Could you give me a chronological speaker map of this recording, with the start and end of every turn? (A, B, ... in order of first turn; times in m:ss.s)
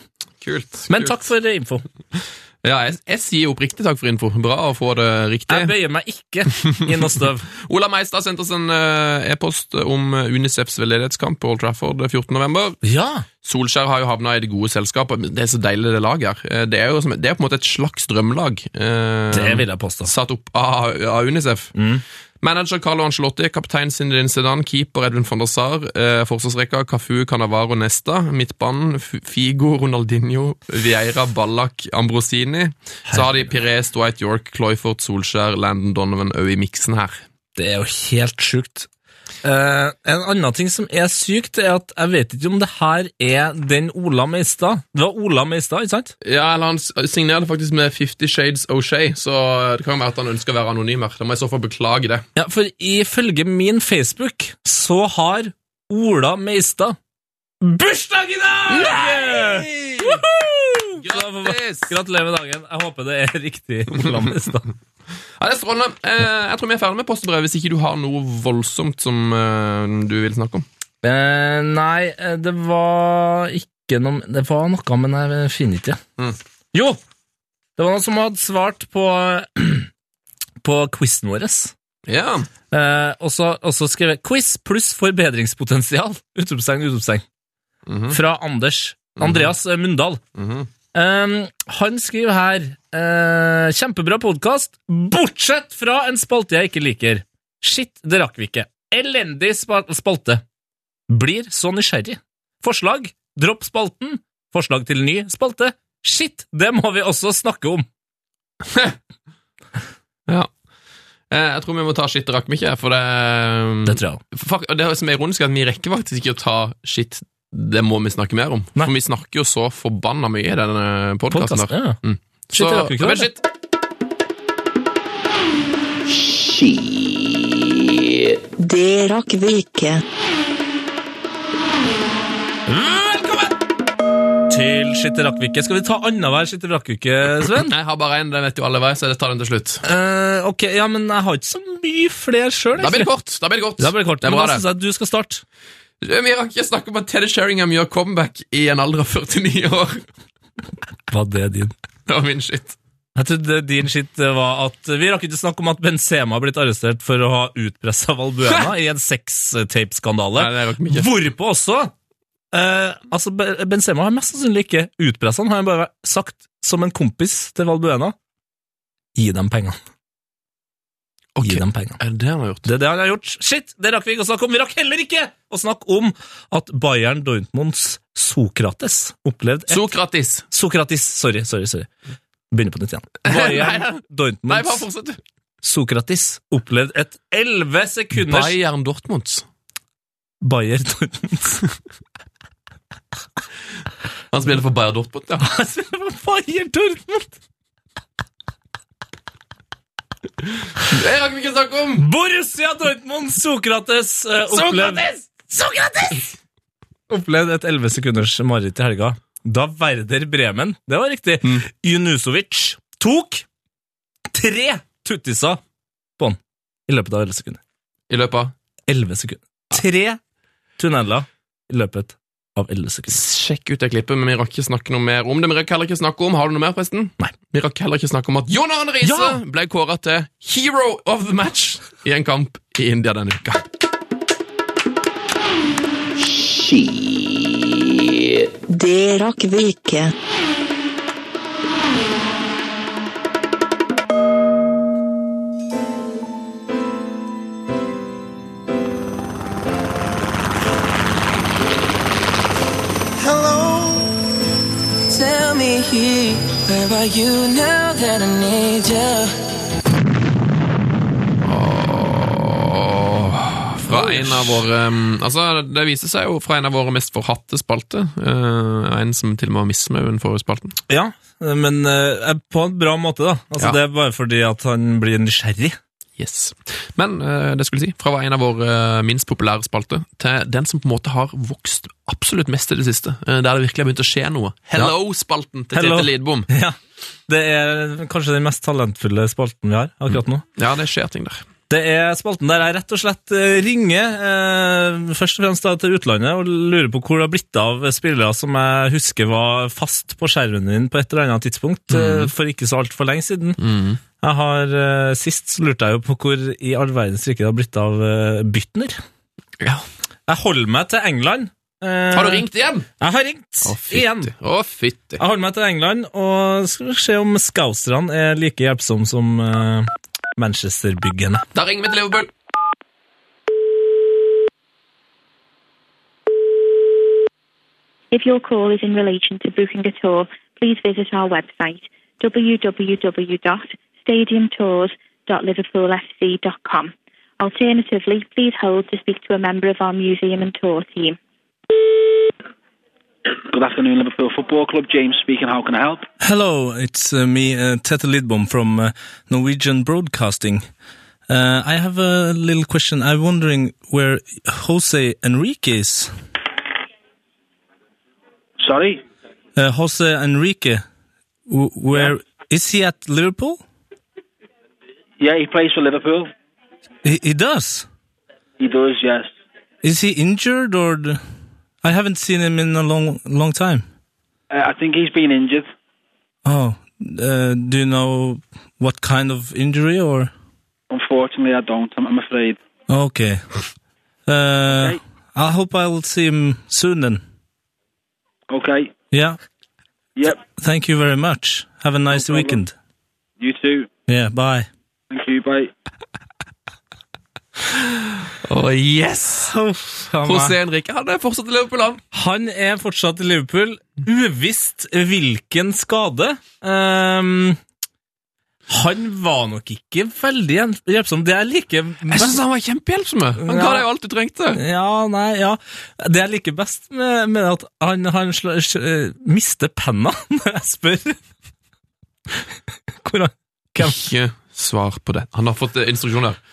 0:00.4-0:01.2 A
0:00.9-0:01.8 B
0:02.6-0:05.7 A
0:05.5-0:07.5 B
0:07.6-0:12.8 A
0:12.8-0:13.2 B
0:13.4-0:21.7 A
0:19.3-0:20.1 B
0:21.8-0:22.0 B
0:22.4-0:37.2 A
0:33.1-0:33.5 B
0:37.6-0:38.9 B
0:39.4-0:46.1 B
0:46.2-0:52.3 A
0:52.4-0:57.0 B
0:57.6-1:04.7 B
0:58.7-1:00.2 A
1:01.0-1:01.9 A
1:05.4-1:10.6 A
1:11.0-1:16.0 B
1:16.7-1:17.0 B
1:17.8-1:19.9 B
1:20.6-1:21.7 B
1:22.1-1:22.5 A
1:22.7-1:27.2 B
1:27.9-1:28.2 A
1:28.1-1:30.2 B
1:29.2-1:29.5 A
1:30.4-1:30.7 A
1:30.9-1:40.4 B
1:41.1-1:47.9 B
1:51.3-2:03.4 A
1:53.9-1:54.2 B
2:01.3-2:02.0 B
2:02.5-2:03.3 B
2:08.6-2:10.0 C
2:12.7-2:13.6 B
2:14.5-2:17.7 B
2:17.6-2:19.8 A
2:19.8-2:23.1 B
2:22.8-2:24.6 A
2:23.8-2:25.4 B
2:26.0-2:30.0 A
2:31.1-2:31.7 B
2:32.1-2:32.8 A
2:33.2-2:41.9 B
2:40.4-2:41.1 A
2:42.5-2:48.2 B
2:49.2-2:49.8 B
2:51.4-2:52.7 A
2:51.4-2:52.0 B
2:52.6-2:59.8 B
2:59.7-3:00.4 A
3:00.5-3:01.9 B
3:02.5-3:04.8 B
3:03.2-3:05.2 A
3:05.6-3:08.6 B
3:08.2-3:09.4 A
3:10.4-3:11.6 B
3:14.3-3:15.5 A
3:15.4-3:17.3 B
3:20.8-3:22.0 A
3:22.0-3:26.3 B
3:24.5-3:25.1 A
3:27.1-3:33.4 B
3:34.3-3:35.6 B
3:36.2-3:37.6 B
3:38.1-3:38.5 A
3:38.9-3:40.2 B
3:40.8-3:43.2 B
3:43.1-3:53.6 A
3:49.0-3:49.4 B
3:58.7-4:00.1 C
4:13.2-4:14.1 D
4:15.1-4:19.4 D
4:21.4-4:30.8 A
4:23.9-4:24.6 B
4:30.9-4:35.8 B
4:36.2-4:46.5 A
4:45.7-4:46.8 B
4:47.3-4:50.4 B
4:50.6-4:51.4 A
4:51.7-5:03.6 B
5:01.9-5:02.3 A
5:03.6-5:04.0 A
5:04.2-5:09.0 B
5:10.3-5:12.5 B
5:12.1-5:12.9 A
5:13.0-5:14.3 B
5:13.6-5:15.2 A
5:15.2-5:21.4 B
5:21.5-5:22.3 A
5:28.1-5:41.2 E
5:43.5-5:46.1 F
5:46.2-5:50.7 B
5:51.3-5:56.1 B
5:58.6-5:59.0 F
5:59.6-6:00.8 B
6:01.5-6:03.6 B
6:05.2-6:06.3 F
6:07.0-6:07.9 B
6:08.6-6:09.3 F
6:09.8-6:11.2 B
6:11.8-6:13.8 B
6:14.5-6:15.7 F
6:16.4-6:20.3 B
6:20.9-6:22.6 F
6:22.9-6:23.5 B
6:24.3-6:27.2 B
6:24.7-6:25.0 F
6:28.5-6:29.0 F
6:29.1-6:29.4 B
6:30.2-6:30.4 F
6:30.6-6:32.7 B
6:32.1-6:32.6 F
6:33.4-6:33.9 F
6:34.1-6:34.7 B
6:35.1-6:35.7 F
6:38.4-6:39.6 A
6:39.5-6:40.6 B
6:40.2-6:42.0 A
6:42.1-6:47.6 B
6:48.7-6:52.4 B
6:52.1-6:54.6 A
6:53.4-6:53.8 B
6:54.6-7:01.2 B
7:03.0-7:04.0 B
7:03.8-7:06.4 A